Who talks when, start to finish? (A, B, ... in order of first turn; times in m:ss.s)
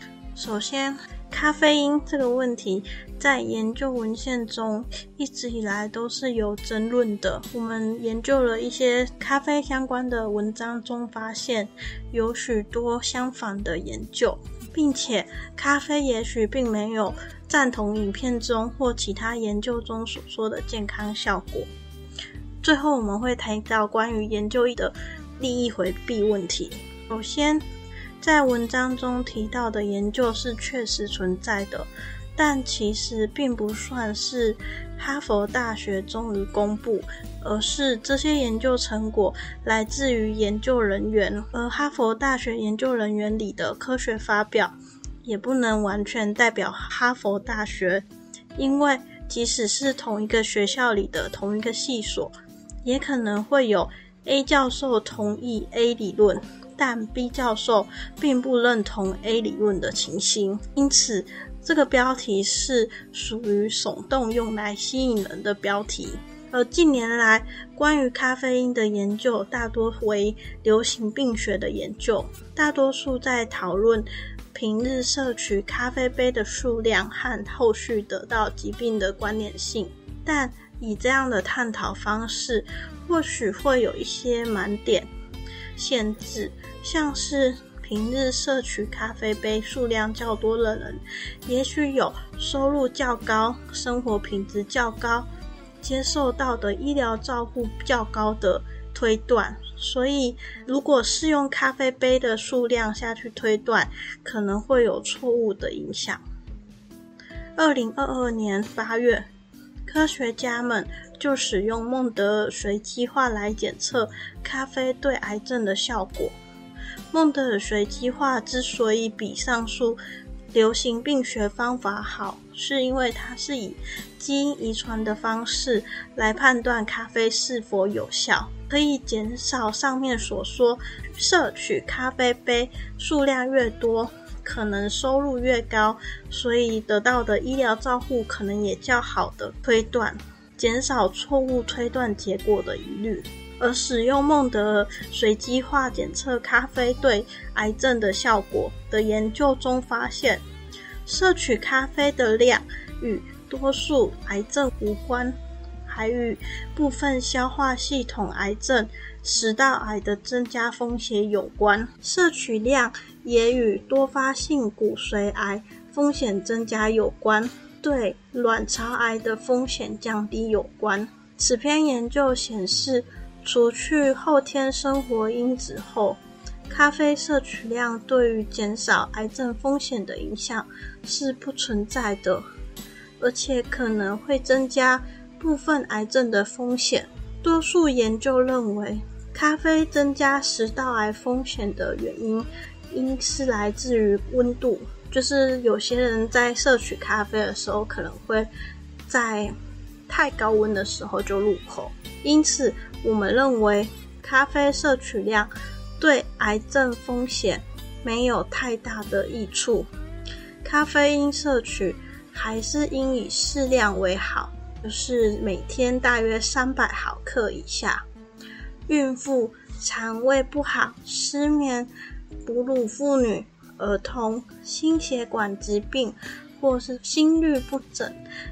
0:00.4-0:21.7 A
0:22.6-0:27.6 A
0:28.2-0:48.0 A
0:48.6-1:25.1 A
1:25.8-1:35.3 A
1:35.8-1:46.2 A
1:47.6-1:49.3 A
1:49.8-1:56.3 A
1:57.1-2:00.0 A
2:00.5-2:30.4 A
2:31.1-3:02.4 A
3:03.2-3:18.5 A
3:19.1-3:19.5 A
3:20.1-3:29.9 A
3:30.6-3:38.0 A
3:38.9-3:41.9 A
3:42.4-3:48.2 A